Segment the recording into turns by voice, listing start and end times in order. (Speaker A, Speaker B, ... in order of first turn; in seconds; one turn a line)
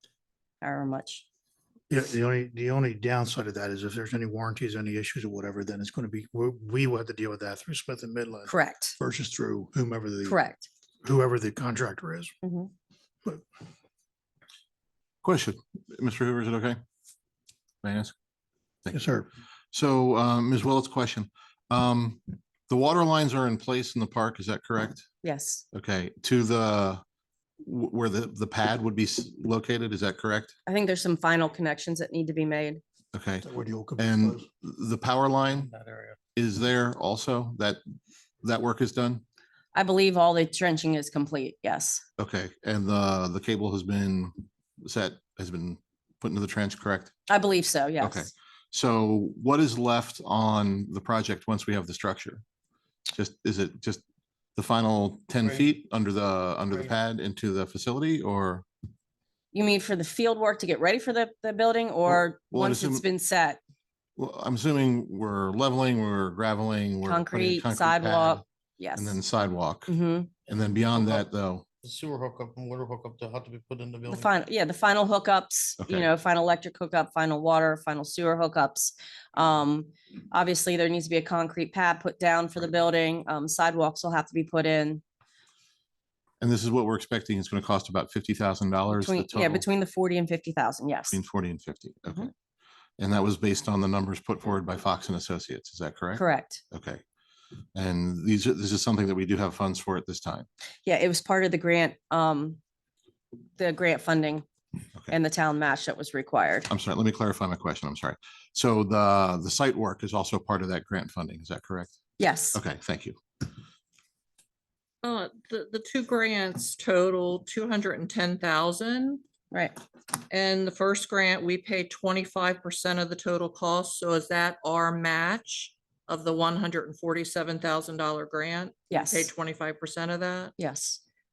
Speaker A: 0.6-1.2
Speaker B: 1.9-10.4
Speaker A: 8.5-8.9
Speaker A: 10.2-10.7
Speaker B: 11.0-12.3
Speaker A: 12.4-12.7
Speaker C: 15.2-16.8
Speaker C: 17.8-18.1
Speaker B: 18.9-19.3
Speaker C: 19.7-25.1
Speaker A: 25.2-25.6
Speaker C: 25.7-27.0
Speaker C: 27.6-30.5
Speaker A: 30.6-32.8
Speaker C: 33.1-33.5
Speaker B: 33.4-34.4
Speaker C: 34.0-35.7
Speaker D: 35.5-36.2
Speaker C: 36.4-37.8
Speaker C: 38.4-39.2
Speaker A: 39.7-42.0
Speaker C: 42.2-47.1
Speaker A: 47.3-48.3
Speaker C: 48.0-52.4
Speaker C: 53.1-54.0
Speaker C: 54.5-58.6
Speaker D: 55.4-55.7
Speaker A: 59.5-63.6
Speaker C: 62.0-63.1
Speaker C: 64.2-68.4
Speaker A: 67.0-69.2
Speaker C: 69.0-69.9
Speaker A: 69.9-70.3
Speaker C: 70.5-71.7
Speaker D: 70.6-71.3
Speaker D: 71.8-74.3
Speaker A: 74.1-85.0
Speaker C: 75.8-76.1
Speaker C: 86.4-89.6
Speaker A: 88.9-91.2
Speaker C: 91.1-92.3
Speaker C: 93.0-97.0
Speaker A: 96.1-96.6
Speaker C: 97.7-100.5
Speaker A: 100.8-102.6
Speaker A: 103.6-104.5
Speaker A: 105.1-106.7
Speaker C: 106.7-111.9
Speaker A: 112.2-112.6
Speaker C: 112.5-113.2
Speaker E: 115.0-119.2
Speaker E: 120.3-130.5
Speaker A: 128.9-129.3
Speaker A: 130.6-131.0